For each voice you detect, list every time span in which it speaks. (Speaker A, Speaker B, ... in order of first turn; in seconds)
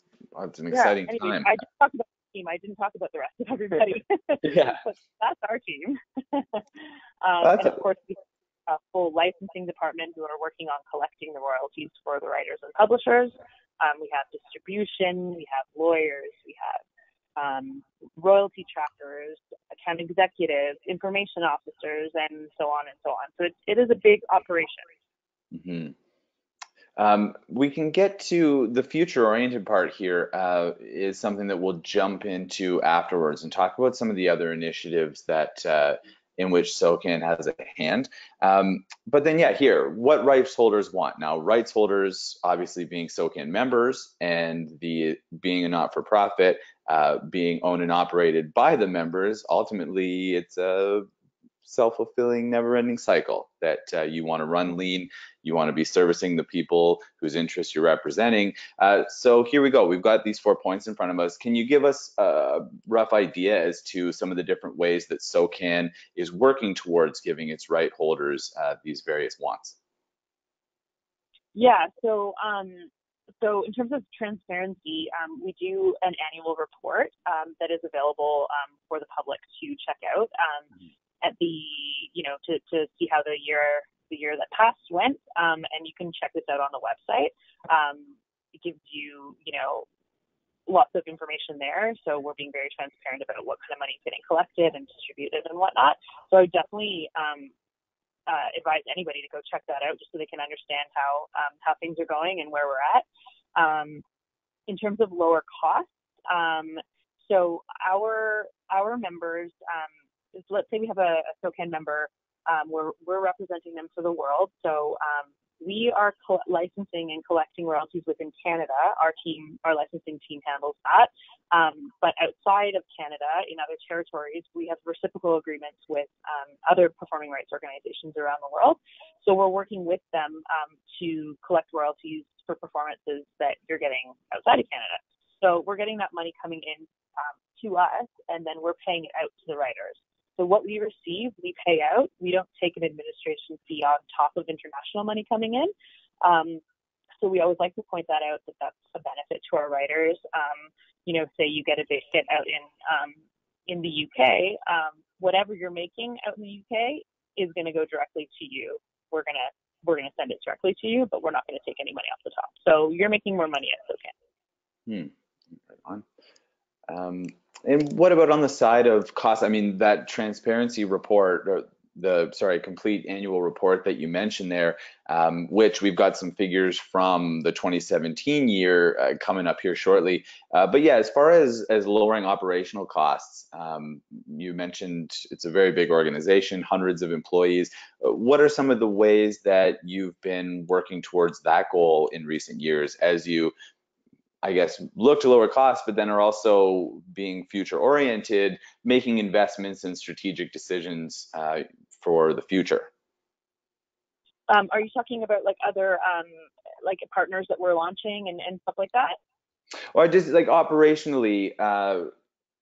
Speaker A: 0.3-1.5, 4.4-4.8, 7.4-7.8, 25.5-25.9, 27.0-51.1, 51.6-69.8, 164.9-165.1, 165.7-166.0, 166.9-193.5, 194.4-202.9, 209.9-212.1
Speaker B: 0.7-6.6, 7.2-16.8, 17.4-24.8, 71.5-72.9, 73.4-80.7, 81.2-89.9, 90.7-97.5, 98.3-104.0, 104.7-146.6, 147.2-164.1, 204.5-209.2